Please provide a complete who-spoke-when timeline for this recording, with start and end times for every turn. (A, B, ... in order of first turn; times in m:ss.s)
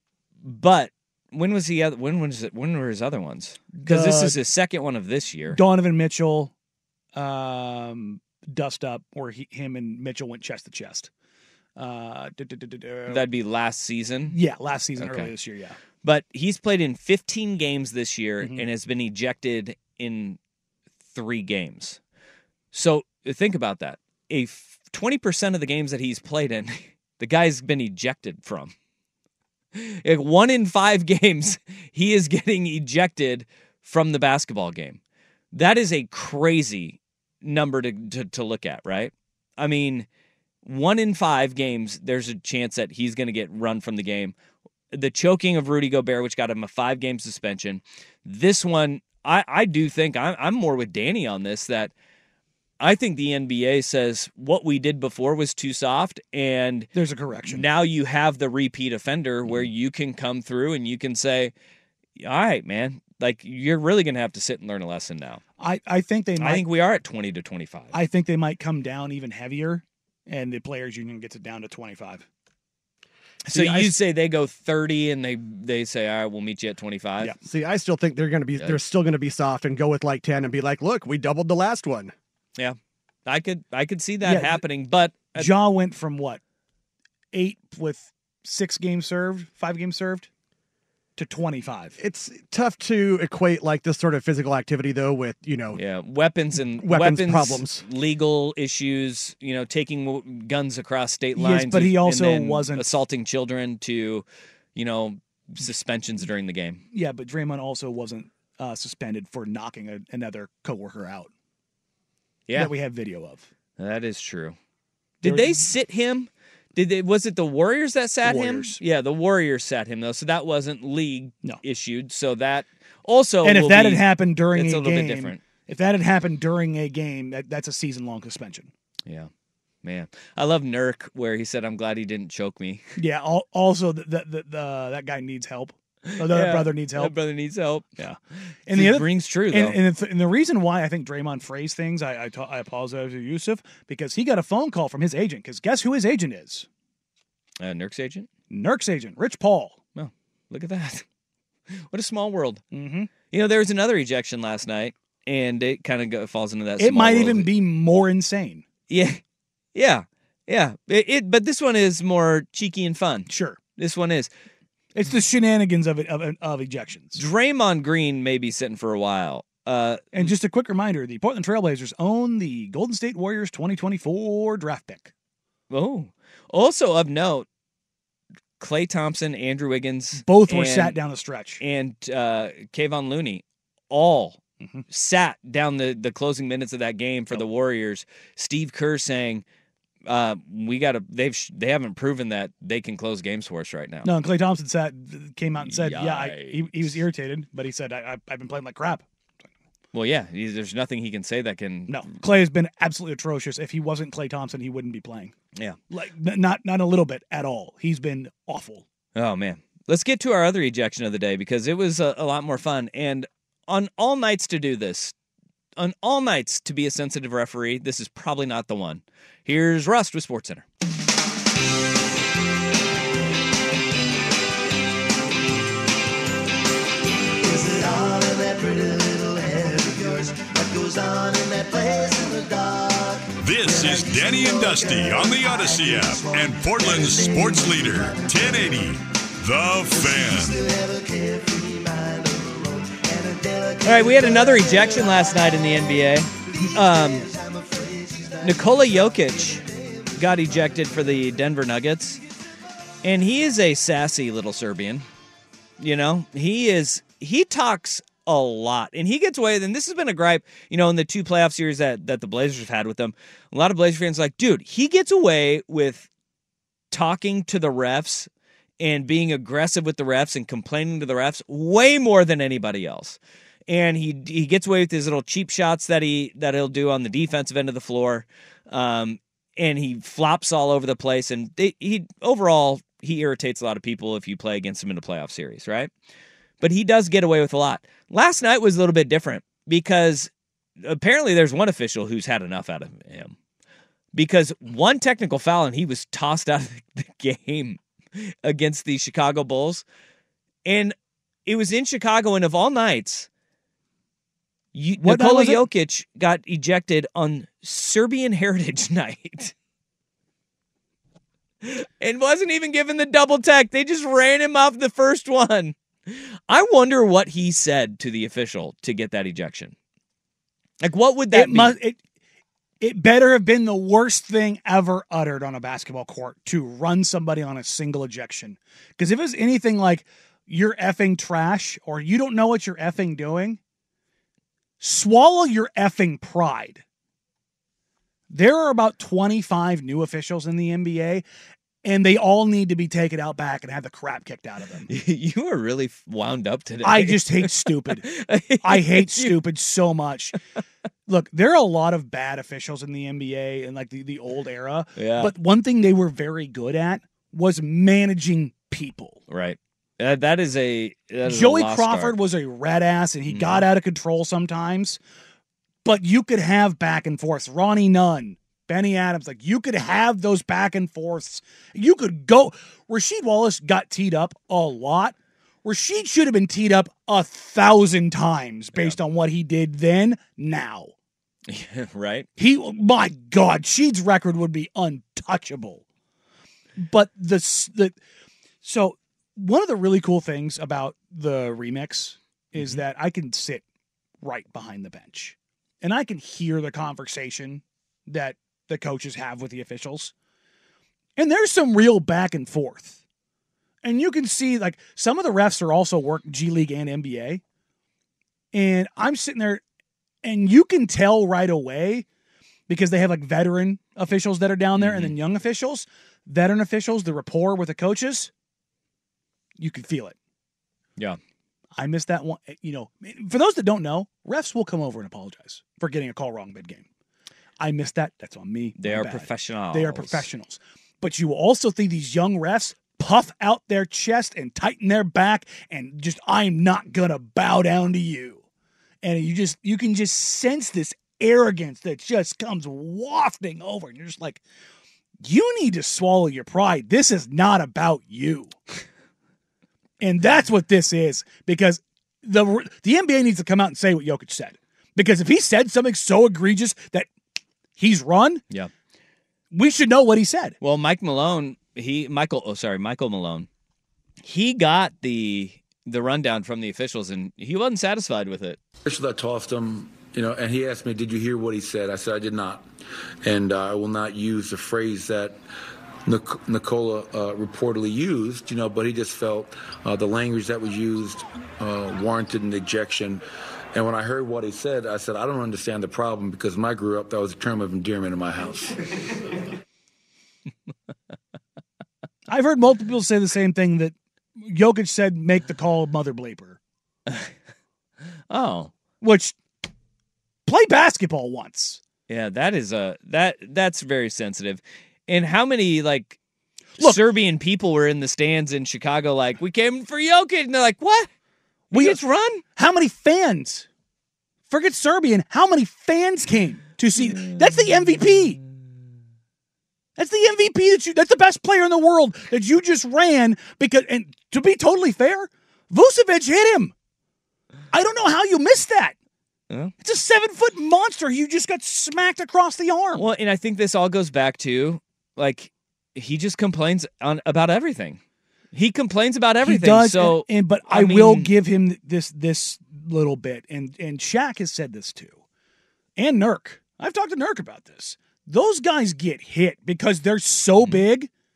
0:00.4-0:05.6 A
0:03.7-0:04.4 B
0:05.5-0:06.5 B
0:07.2-0:11.1 B
0:11.8-0:13.2 B
0:13.1-0:14.4 A
0:14.3-0:15.8 B
0:15.0-0:15.3 A
0:16.0-0:20.4 A
0:18.4-0:18.7 B
0:21.1-0:22.0 A
0:22.7-0:28.7 A
0:29.8-0:35.0 A
0:35.5-0:40.1 A
0:40.6-0:44.3 A
0:44.9-0:51.9 A
0:52.8-0:56.9 A
0:56.9-0:57.7 B
0:57.4-1:01.5 A
1:02.2-1:05.4 A
1:05.6-1:06.7 B
1:06.4-1:08.0 A
1:07.9-1:12.2 B
1:13.5-1:17.4 A
1:13.5-1:13.9 C
1:17.4-1:22.1 C
1:22.6-1:25.5 A
1:24.2-1:24.6 B
1:25.3-1:26.4 B
1:27.3-1:30.3 B
1:31.2-1:32.0 B
1:32.0-1:35.8 C
1:35.8-1:46.8 A
1:36.8-1:37.8 C
1:41.4-1:42.9 B
1:46.9-1:51.3 B
1:52.5-1:52.7 A
1:52.5-1:53.5 B
1:53.8-1:54.6 A
1:55.2-2:05.4 A
1:55.2-1:55.7 B
1:58.2-1:58.8 B
2:03.4-2:08.7 B
2:09.8-2:12.8 A
2:13.0-2:17.2 B
2:16.2-2:17.9 A
2:18.0-2:26.7 B
2:18.7-2:19.8 A
2:27.6-2:28.3 A
2:28.5-2:29.8 B
2:30.0-2:31.0 A
2:31.8-2:32.6 A
2:32.7-2:33.1 B
2:33.3-2:37.5 A
2:36.8-2:38.6 B
2:38.9-2:39.2 A
2:39.8-2:44.3 A
2:43.3-2:43.6 B
2:45.0-2:47.2 B
2:47.2-2:50.3 A
2:50.1-2:55.1 B
2:55.7-2:57.5 A
2:58.6-3:01.0 A
3:00.2-3:01.6 B
3:01.6-3:09.4 A
3:10.1-3:14.1 A
3:14.0-3:19.0 B
3:15.6-3:17.0 A
3:19.9-3:22.1 A
3:21.9-3:25.3 B
3:25.9-3:28.8 B
3:29.2-3:35.1 A
3:35.8-3:40.6 A
3:47.4-3:58.8 D
3:53.4-4:00.6 E
3:59.9-4:05.8 D
4:03.8-4:07.3 A
4:06.7-4:09.6 D
4:08.4-4:09.6 A
4:10.2-4:12.2 A
4:13.0-4:15.1 A
4:15.8-4:26.1 A
4:26.9-4:28.3 A
4:28.8-4:45.9 A
4:46.6-4:50.3 A
4:50.8-4:53.4 A
4:54.1-4:57.8 A
4:58.4-4:59.8 A
5:00.6-5:01.0 A
5:01.5-5:03.3 A
5:04.7-5:09.5 A
5:05.0-5:05.7 B
5:11.6-5:19.7 A
5:20.8-5:21.8 A
5:21.3-5:22.0 B
5:22.8-5:33.6 B
5:34.8-5:36.8 B
5:38.3-5:41.2 B
5:41.8-5:44.9 B
5:44.9-5:49.4 A
5:46.8-5:48.1 B
5:48.6-5:50.4 B
5:51.1-5:59.2 B
5:55.0-5:55.4 A
5:59.3-6:02.2 A
6:01.2-6:05.0 B
6:03.3-6:03.7 A
6:05.8-6:20.9 B
6:21.5-6:22.3 A
6:22.4-6:25.8 B
6:26.8-6:28.0 B
6:28.6-6:33.6 B
6:32.6-6:32.8 A
6:34.2-6:40.1 B
6:41.2-6:43.0 B
6:43.8-6:47.4 B
6:48.5-6:49.6 B
6:50.2-6:52.1 B
6:52.7-6:58.3 B
6:54.8-6:55.2 A
6:59.6-7:00.2 B
7:01.8-7:06.9 B
7:07.6-7:18.4 B
7:08.8-7:10.3 A
7:19.0-7:24.4 B
7:25.2-7:28.6 B
7:30.0-7:37.1 B
7:37.8-7:38.4 B
7:39.5-7:40.6 B
7:40.6-7:43.5 A
7:44.2-7:48.6 A
7:48.8-7:52.7 F
7:53.2-7:55.4 F
7:56.1-8:03.2 F
8:03.7-8:08.7 F
8:12.3-8:16.6 B
8:18.3-8:18.7 A
8:19.0-8:19.4 B
8:20.5-8:21.8 B
8:22.1-8:26.2 A
8:26.8-8:31.1 A
8:31.7-8:32.4 A
8:31.7-8:32.0 B
8:32.6-8:33.7 B
8:34.5-8:38.4 B
8:37.0-8:37.5 A
8:40.0-8:46.7 B
8:47.7-8:49.0 B
8:49.8-8:53.1 B
8:53.0-8:58.0 A
8:58.5-9:01.4 A
8:59.4-9:05.2 B
9:06.0-9:11.1 B
9:10.6-9:10.8 A